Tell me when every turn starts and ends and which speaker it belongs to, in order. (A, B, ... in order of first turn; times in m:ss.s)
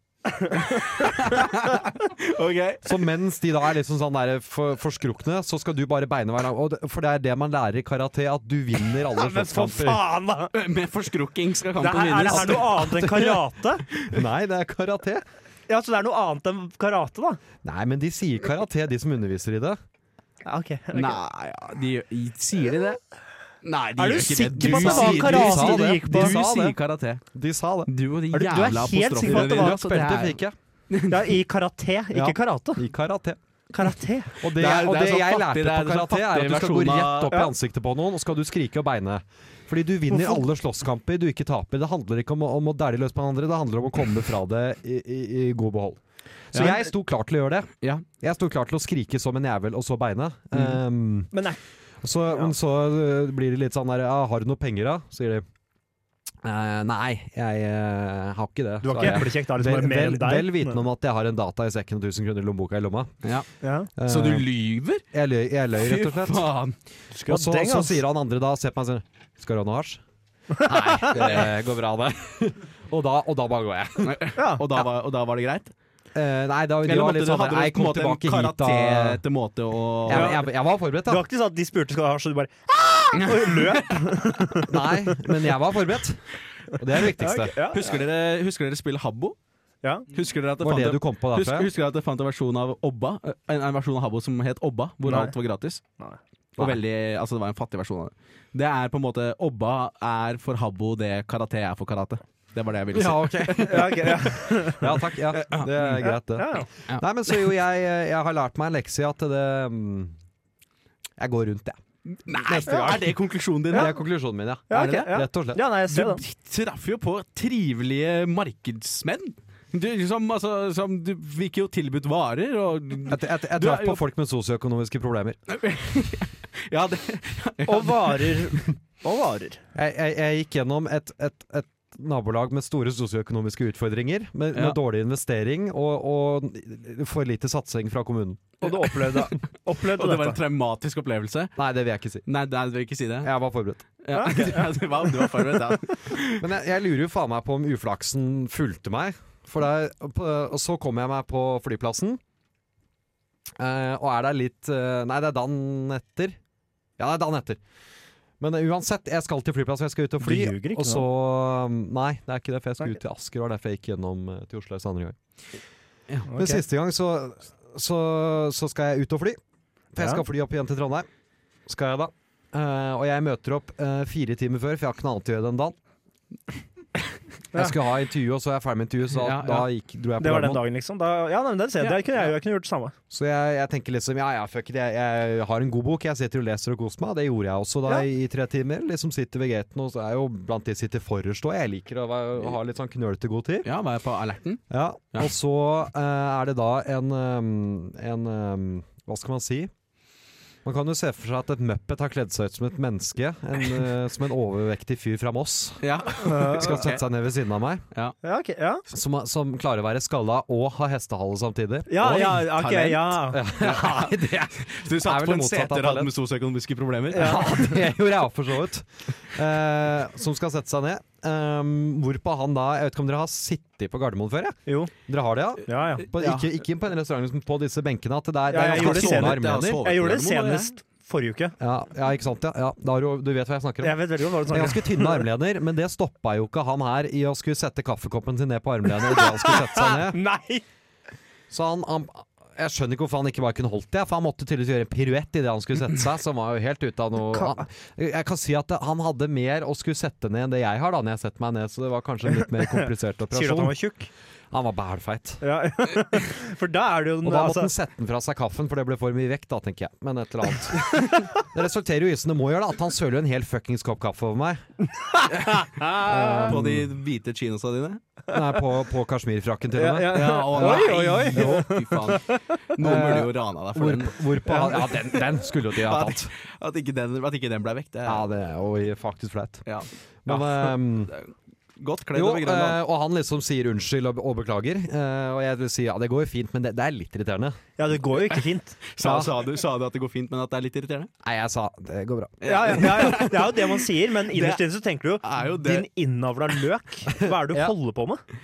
0:00.4-0:01.0 A
0:00.6-0:03.0 B
0:02.8-0:10.1 C
0:09.1-0:10.5 A
0:10.5-0:14.2 B
0:11.8-0:13.8 A
0:12.3-0:12.6 C
0:14.1-0:15.2 C
0:15.7-0:17.4 A
0:17.6-0:19.8 C
0:20.4-0:21.2 A
0:20.9-0:23.0 B
0:23.6-0:27.2 B
0:24.0-0:26.4 A
0:24.6-0:26.8 C
0:27.3-0:27.9 C
0:27.9-0:31.3 B
0:28.3-0:29.8 A
0:29.2-0:30.6 C
0:31.1-0:32.8 A
0:32.1-0:33.4 C
0:33.7-0:34.3 A
0:34.4-0:51.3 C
0:34.6-0:37.4 B
0:46.5-0:46.8 B
0:51.3-0:51.6 A
0:52.0-0:55.4 C
0:56.4-1:03.1 C
0:58.8-1:00.8 A
1:03.6-1:03.9 A
1:04.0-1:04.5 C
1:04.0-1:05.0 B
1:05.1-1:06.5 C
1:05.8-1:06.7 B
1:07.1-1:08.0 A
1:07.3-1:10.0 C
1:10.6-1:11.1 A
1:10.6-1:14.2 C
1:11.1-1:11.6 B
1:14.0-1:15.7 B
1:14.4-1:14.6 A
1:16.1-1:19.2 C
1:16.8-1:20.4 B
1:20.0-1:21.2 C
1:20.1-1:20.4 A
1:21.1-1:25.3 A
1:23.2-1:24.0 B
1:24.6-1:27.5 C
1:27.2-1:28.0 A
1:27.7-1:29.4 B
1:30.1-1:35.8 B
1:30.6-1:31.7 C
1:35.0-1:35.3 A
1:36.6-1:44.4 B
1:42.9-1:50.2 C
1:43.6-1:44.9 A
1:45.3-1:46.0 B
1:46.0-1:46.7 A
1:51.2-1:53.1 C
1:52.2-1:54.0 B
1:52.7-1:53.0 A
1:53.7-1:55.6 C
1:53.7-1:54.0 A
1:54.7-1:56.2 A
1:54.7-1:55.1 B
1:55.9-2:04.0 B
2:03.1-2:05.4 C
2:05.5-2:08.6 B
2:07.6-2:09.6 A
2:09.7-2:18.5 C
2:18.6-2:20.4 A
2:18.9-2:21.6 B
2:21.6-2:22.2 C
2:22.2-2:23.3 B
2:23.2-2:23.8 C
2:24.0-2:26.5 B
2:24.1-2:25.6 A
2:26.4-2:32.2 C
2:33.6-2:36.4 C
2:37.0-2:37.6 C
2:38.4-2:45.2 C
2:40.2-2:41.1 A
2:46.3-2:46.6 A
2:46.4-2:49.4 C
2:49.9-2:51.1 C
2:51.7-2:55.8 C
2:57.5-3:00.6 C
2:59.2-2:59.7 B
3:00.2-3:02.9 A
3:01.8-3:02.2 B
3:03.1-3:13.7 C
3:13.6-3:14.6 B
3:14.7-3:19.7 C
3:20.6-3:27.8 C
3:25.8-3:27.0 B
3:26.2-3:26.8 A
3:28.2-3:28.8 A
3:28.9-3:32.3 C
3:31.9-3:33.4 A
3:32.0-3:37.8 B
3:33.3-3:36.1 C
3:37.1-3:37.5 A
3:37.1-3:49.8 C
3:44.6-3:44.9 A
3:45.7-3:46.0 A
3:46.1-3:46.5 B
3:48.5-3:51.6 A
3:48.6-3:50.7 B
3:51.6-4:00.2 C
3:53.8-3:55.2 A
3:59.0-4:00.6 A
4:01.5-4:13.8 C
4:07.3-4:07.6 A
4:12.4-4:14.1 A
4:14.5-4:15.4 C
4:15.4-4:17.7 A
4:17.2-4:24.7 C
4:20.9-4:21.2 A
4:25.0-4:26.5 A
4:26.0-4:26.9 C
4:26.4-4:28.0 B
4:28.3-4:31.0 C
4:29.7-4:32.6 A
4:30.1-4:35.2 B
4:32.8-4:36.3 C
4:34.4-4:34.8 A
4:35.7-4:38.2 B
4:38.0-4:39.6 C
4:39.6-4:42.8 B
4:40.2-4:41.1 C
4:42.1-4:47.6 C
4:47.8-4:48.8 A
4:48.3-4:51.1 B
4:49.0-4:49.3 C
4:51.2-4:53.3 C
4:52.4-4:54.6 B
4:52.4-4:58.2 A
4:55.2-4:55.9 B
4:57.2-4:57.7 C